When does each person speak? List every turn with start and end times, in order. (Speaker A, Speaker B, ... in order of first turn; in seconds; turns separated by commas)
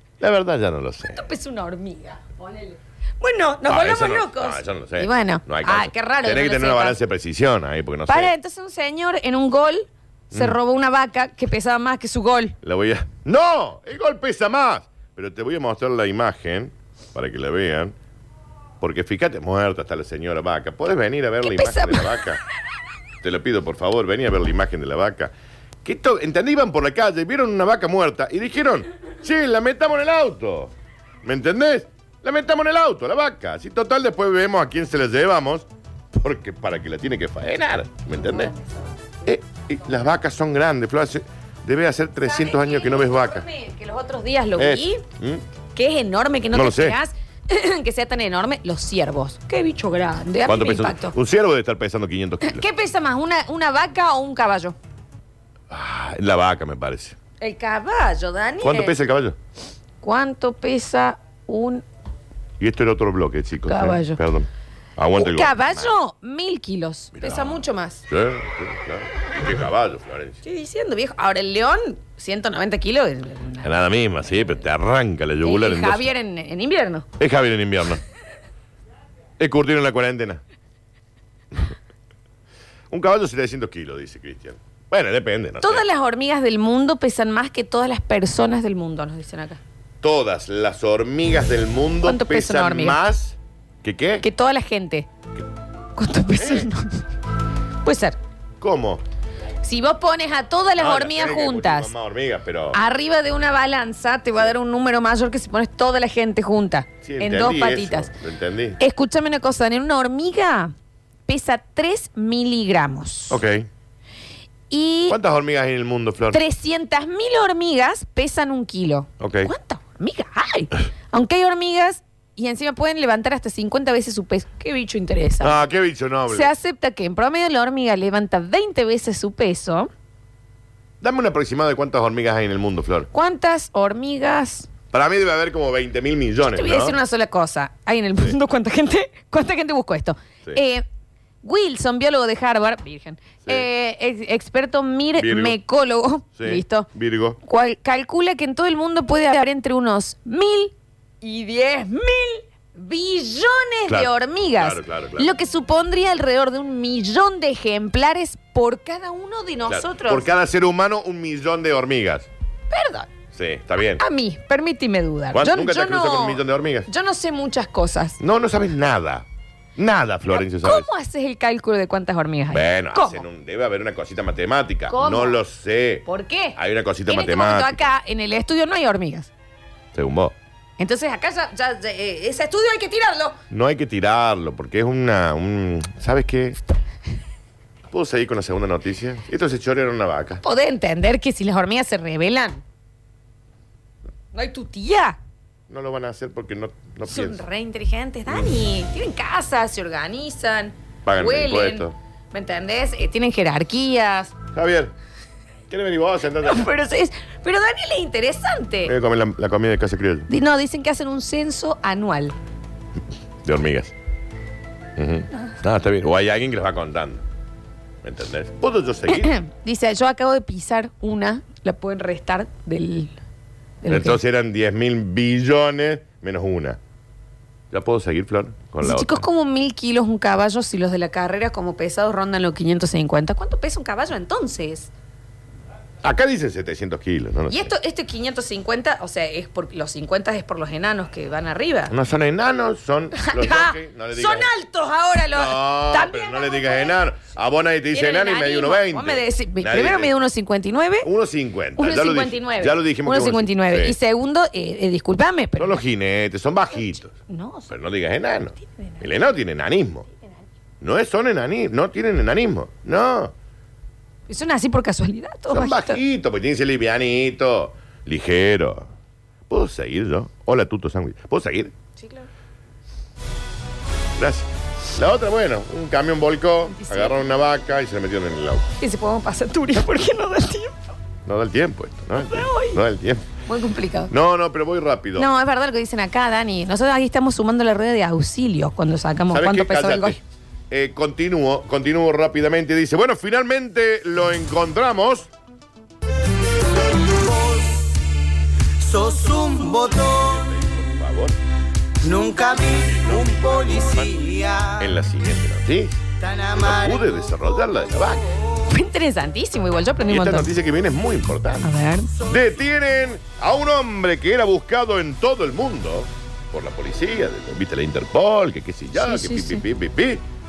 Speaker A: 0.2-1.2, Speaker B: 1.1-7.0, Speaker A: 3.7-8.3, Speaker B: 8.1-12.6, Speaker A: 12.6-18.0, Speaker A: 18.8-22.4, Speaker B: 21.4-22.3, Speaker A: 23.2-25.3, Speaker A: 25.8-30.7, Speaker A: 31.2-38.5, Speaker B: 38.3-38.8, Speaker A: 39.2-43.5, Speaker B: 42.2-45.0, Speaker A: 44.6-45.4, Speaker B: 45.7-51.2, Speaker A: 46.5-47.0, Speaker A: 50.5-52.6, Speaker B: 52.4-54.8, Speaker A: 55.7-57.2, Speaker B: 57.4-59.0, Speaker A: 58.6-59.4, Speaker B: 60.0-61.8, Speaker A: 62.6-65.9, Speaker B: 63.7-64.2, Speaker B: 65.2-68.0, Speaker A: 67.2-70.4, Speaker B: 70.4-73.7, Speaker A: 73.6-76.1, Speaker B: 75.4-77.1, Speaker A: 77.2-78.0, Speaker A: 79.4-80.4, Speaker A: 82.9-85.8, Speaker B: 85.6-89.6, Speaker A: 90.0-94.2, Speaker B: 92.0-93.0, Speaker B: 94.2-95.1, Speaker B: 96.0-97.0, Speaker A: 96.4-96.7, Speaker B: 97.8-98.2, Speaker A: 98.6-99.0, Speaker B: 99.6-101.9, Speaker A: 100.8-102.8, Speaker B: 102.7-108.1, Speaker A: 107.0-108.8, Speaker B: 108.8-110.7, Speaker B: 111.3-113.4, Speaker A: 113.3-113.7, Speaker B: 114.7-115.2, Speaker A: 115.1-116.4, Speaker B: 116.3-125.6, Speaker A: 119.2-119.5, Speaker A: 125.4-126.5, Speaker B: 126.3-129.9, Speaker A: 131.0-133.1, Speaker B: 133.1-134.7, Speaker A: 134.9-137.0, Speaker B: 136.5-140.8, Speaker B: 141.4-146.9, Speaker A: 145.2-145.6, Speaker A: 146.4-147.4, Speaker B: 147.4-160.3, Speaker A: 153.9-155.3, Speaker A: 159.7-162.3, Speaker B: 162.7-163.1, Speaker A: 163.3-164.0, Speaker B: 164.0-168.2, Speaker A: 165.3-166.9, Speaker A: 168.2-170.9, Speaker B: 170.3-173.2, Speaker A: 172.5-176.1, Speaker B: 174.9-175.4, Speaker B: 176.1-179.3, Speaker A: 176.6-177.8, Speaker A: 179.9-180.4, Speaker B: 180.8-183.4, Speaker A: 183.5-186.6, Speaker A: 187.9-190.4, Speaker B: 190.4-192.6, Speaker B: 194.3-195.2, Speaker A: 195.7-197.4, Speaker B: 197.1-204.3, Speaker A: 201.1-201.9, Speaker A: 204.5-204.9, Speaker A: 205.7-206.7, Speaker B: 206.4-208.9, Speaker A: 208.9-210.3, Speaker B: 210.3-212.4, Speaker A: 213.4-213.9, Speaker A: 215.0-217.2, Speaker A: 218.0-219.3, Speaker B: 219.1-223.2, Speaker B: 223.8-224.2, Speaker A: 223.9-226.8, Speaker A: 227.7-229.2, Speaker B: 228.8-234.9, Speaker A: 236.0-237.7, Speaker B: 237.5-241.9, Speaker A: 241.9-244.5, Speaker B: 243.2-247.0, Speaker A: 245.3-250.1, Speaker B: 247.9-251.1, Speaker A: 251.0-254.0, Speaker B: 251.8-255.8, Speaker A: 255.6-257.1, Speaker B: 257.1-257.7, Speaker A: 257.7-260.1, Speaker B: 258.6-259.1, Speaker A: 260.8-263.3, Speaker B: 264.3-266.0, Speaker A: 265.5-268.9, Speaker A: 269.5-271.7, Speaker B: 272.0-272.3, Speaker A: 274.2-278.7, Speaker B: 276.7-277.2, Speaker B: 278.8-280.9, Speaker A: 281.3-283.2, Speaker B: 282.1-282.8, Speaker B: 283.5-284.1, Speaker A: 284.1-285.3, Speaker B: 285.2-290.2, Speaker A: 289.3-290.2, Speaker A: 290.7-295.3, Speaker C: 297.1-297.8, Speaker C: 298.8-300.4, Speaker A: 300.1-301.4, Speaker C: 302.0-304.9, Speaker A: 302.9-308.4, Speaker C: 306.2-307.1, Speaker B: 308.7-310.5, Speaker A: 310.1-320.2, Speaker B: 311.6-312.1, Speaker B: 318.9-319.6